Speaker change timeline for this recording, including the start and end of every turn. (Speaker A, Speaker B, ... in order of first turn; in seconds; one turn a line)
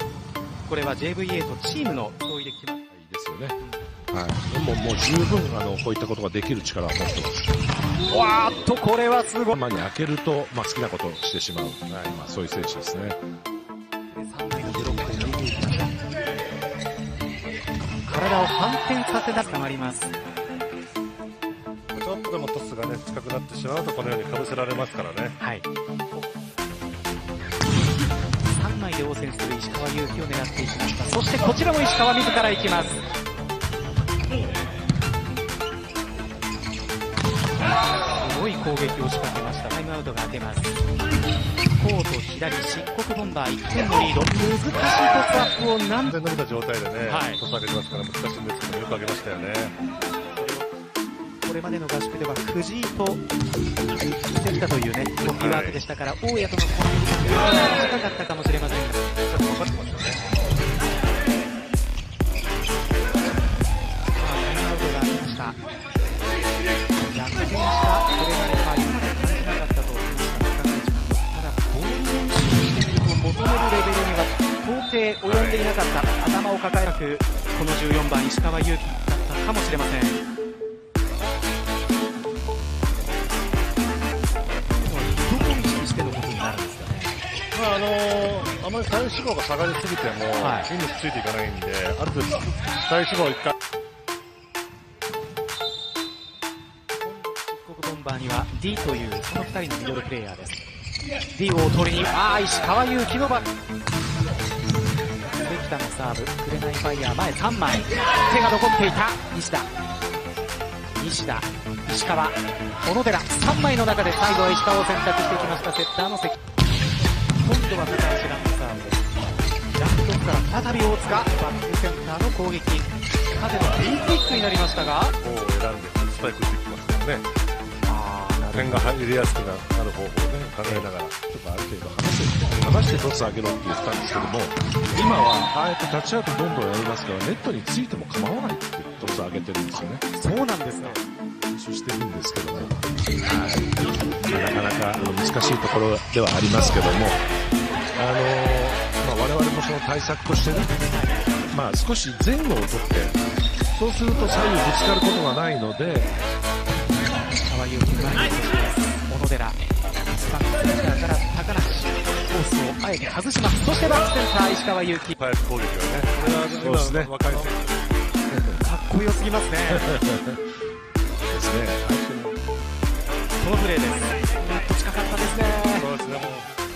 Speaker A: 0.7-2.8
Speaker B: 2.9-3.6
Speaker B: 4.1-7.5
Speaker A: 8.1-9.6
Speaker B: 9.5-13.2
Speaker C: 11.9-12.2
Speaker A: 14.1-15.9
Speaker A: 18.1-20.1
Speaker C: 21.9-25.4
Speaker A: 25.4-25.7
Speaker A: 28.4-33.0
Speaker A: 38.2-40.8
Speaker A: 41.8-46.1
Speaker C: 46.0-49.8
Speaker A: 47.0-47.4
Speaker A: 50.4-50.7
Speaker A: 51.4-53.2
Speaker A: 54.3-59.2
Speaker C: 55.2-55.8
Speaker C: 59.2-60.2
Speaker A: 64.1-65.6
Speaker A: 67.1-80.2
Speaker C: 75.2-75.7
Speaker A: 84.8-87.2
Speaker C: 87.5-93.5
Speaker A: 90.4-90.7
Speaker A: 97.0-100.6
Speaker A: 101.3-103.5
Speaker A: 105.3-109.7
Speaker A: 111.0-116.4
Speaker A: 117.4-119.2
Speaker A: 119.8-125.2
Speaker C: 125.2-127.3
Speaker A: 127.9-128.4
Speaker B: 127.9-129.0
Speaker C: 128.5-131.2
Speaker B: 130.6-140.0
Speaker A: 139.7-141.0
Speaker B: 141.4-147.2
Speaker B: 148.0-150.8
Speaker A: 150.9-151.3
Speaker B: 151.5-153.2
Speaker B: 153.7-156.1
Speaker A: 157.2-159.6
Speaker A: 160.1-165.2
Speaker C: 165.1-167.7
Speaker B: 166.6-167.5
Speaker B: 168.3-168.7
Speaker A: 168.6-169.9
Speaker B: 169.7-170.4
Speaker B: 171.3-172.4
Speaker A: 173.4-175.9
Speaker C: 175.8-176.5